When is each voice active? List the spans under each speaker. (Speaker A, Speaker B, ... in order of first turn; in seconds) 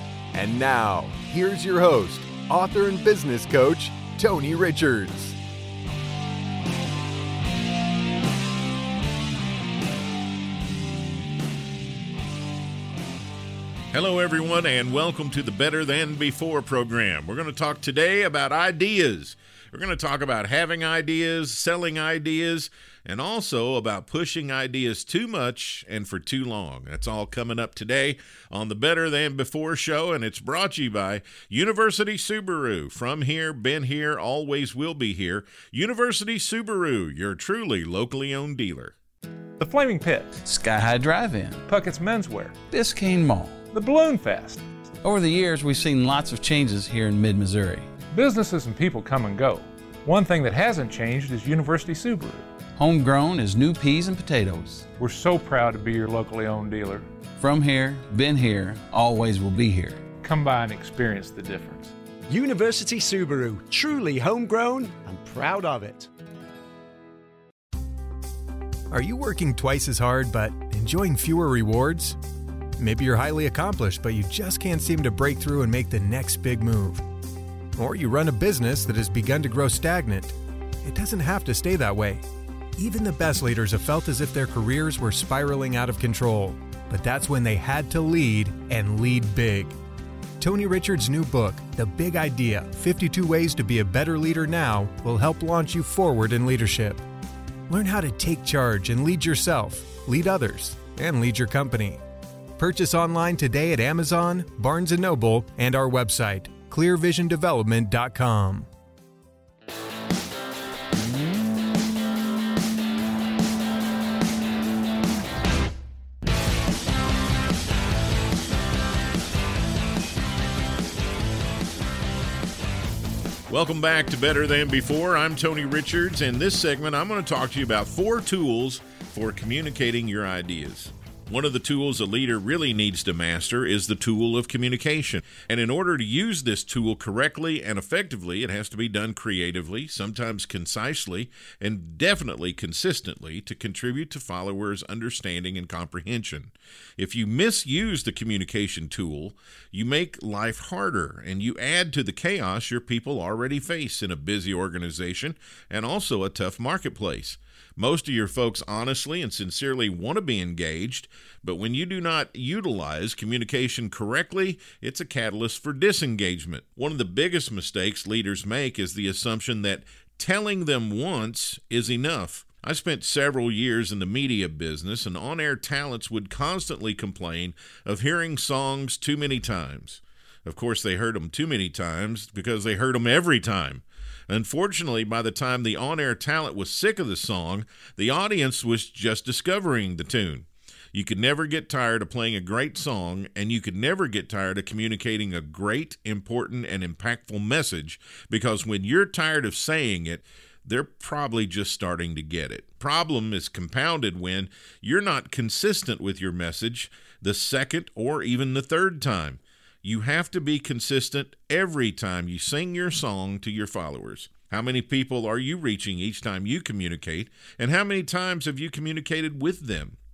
Speaker A: 0.3-5.4, 68.9-72.2, 72.8-77.0, 77.8-80.3, 80.8-82.2, 82.8-89.7, 90.4-97.0, 97.7-102.0, 102.6-108.7
Speaker B: 13.9-39.0, 123.5-220.0
Speaker C: 39.6-40.4, 41.7-42.6, 43.6-44.6, 48.1-52.5, 55.0-57.0, 60.2-61.9
Speaker D: 40.4-41.6, 42.6-43.6, 45.0-47.9, 52.8-54.9, 57.4-60.0
Speaker E: 62.3-66.0